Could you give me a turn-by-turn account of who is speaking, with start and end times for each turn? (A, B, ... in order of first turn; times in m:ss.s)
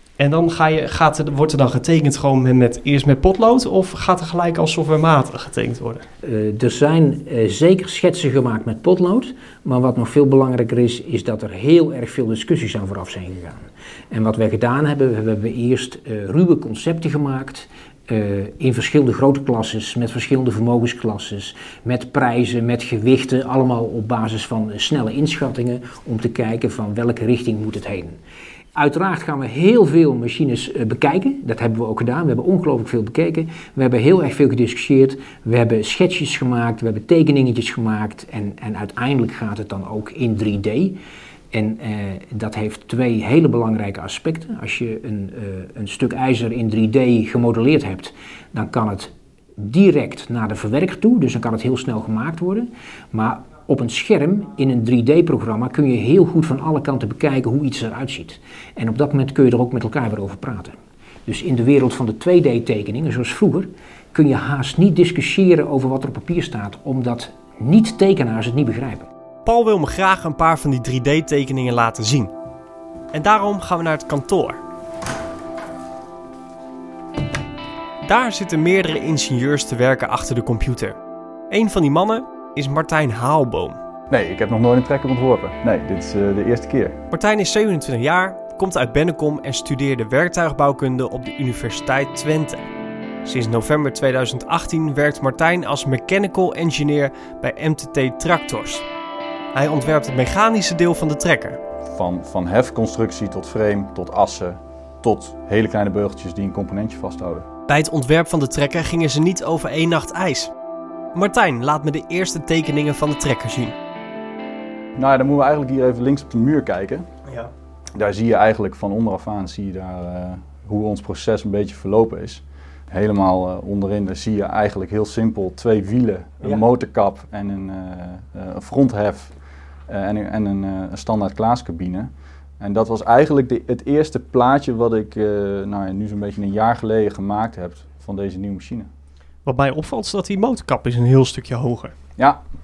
0:00.2-0:06.0 A
0:06.2-0:28.1 B
0:28.7-0:41.0 B
0:41.5-1:00.7 B
1:01.2-1:09.1 B
1:09.4-1:12.3 A
1:13.1-1:14.6 A
1:18.0-1:21.0 A
1:21.5-1:23.8 A
1:24.1-1:27.0 C
1:27.1-1:32.7 A
1:33.2-1:38.8 A
1:39.5-1:41.6 A
1:41.9-1:47.5 C
1:47.7-1:50.5 A
1:51.1-1:53.8 A
1:55.0-1:57.1 C
1:57.9-2:09.3 C
2:09.9-2:18.9 C
2:19.4-2:21.9 A